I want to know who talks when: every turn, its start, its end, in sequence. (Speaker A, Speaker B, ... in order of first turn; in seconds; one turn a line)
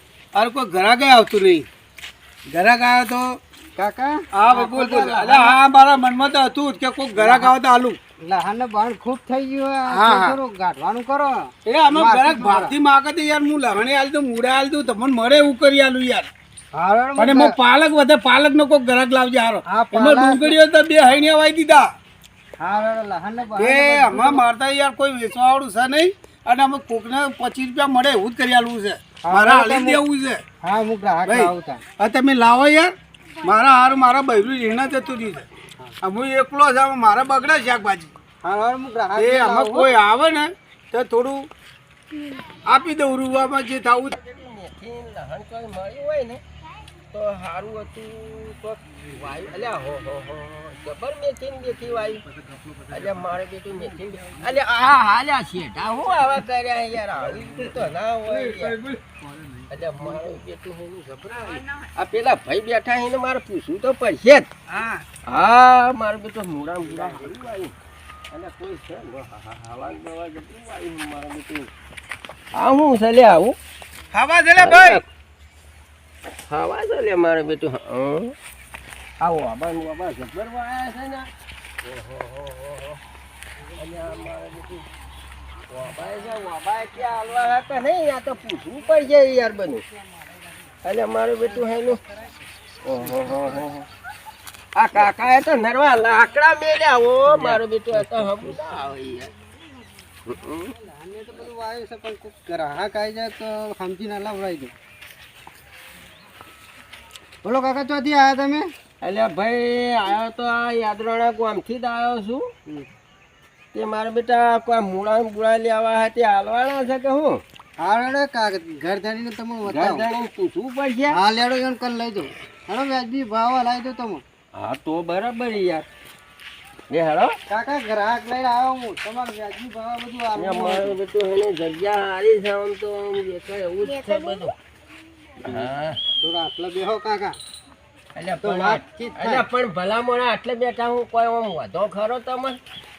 Speaker A: 0.3-1.7
Speaker A: 2.5-3.4
Speaker B: 3.8-5.5
Speaker A: 4.3-8.0
Speaker B: 7.2-7.5
Speaker B: 8.2-12.7
Speaker A: 9.9-10.4
Speaker A: 11.7-16.3
Speaker B: 16.8-17.6
Speaker A: 17.2-21.9
Speaker B: 19.7-20.6
Speaker B: 22.6-24.5
Speaker A: 23.6-30.4
Speaker B: 29.2-30.0
Speaker B: 30.6-31.8
Speaker A: 31.3-35.5
Speaker A: 36.0-38.2
Speaker B: 38.4-39.9
Speaker A: 39.2-41.5
Speaker A: 42.6-44.1
Speaker C: 44.1-46.4
Speaker C: 47.1-52.2
Speaker C: 52.9-58.8
Speaker A: 58.3-59.1
Speaker C: 59.7-64.5
Speaker A: 64.7-65.1
Speaker C: 65.2-67.8
Speaker C: 68.3-71.7
Speaker C: 72.5-73.6
Speaker A: 74.1-75.0
Speaker C: 74.6-75.0
Speaker C: 76.5-78.4
Speaker C: 79.2-81.3
Speaker C: 81.8-83.0
Speaker C: 83.8-84.9
Speaker C: 85.7-89.8
Speaker C: 90.8-92.0
Speaker C: 92.8-93.9
Speaker C: 94.8-99.3
Speaker C: 100.3-100.7
Speaker B: 100.7-104.7
Speaker B: 107.4-108.7
Speaker C: 109.0-112.5
Speaker C: 113.7-117.4
Speaker B: 117.8-120.1
Speaker C: 119.6-121.2
Speaker B: 121.1-124.2
Speaker C: 124.5-125.9
Speaker C: 126.9-127.4
Speaker B: 127.5-130.9
Speaker C: 130.3-134.6
Speaker C: 135.4-136.0
Speaker B: 136.2-137.4
Speaker C: 138.2-142.6
Speaker B: 138.4-139.4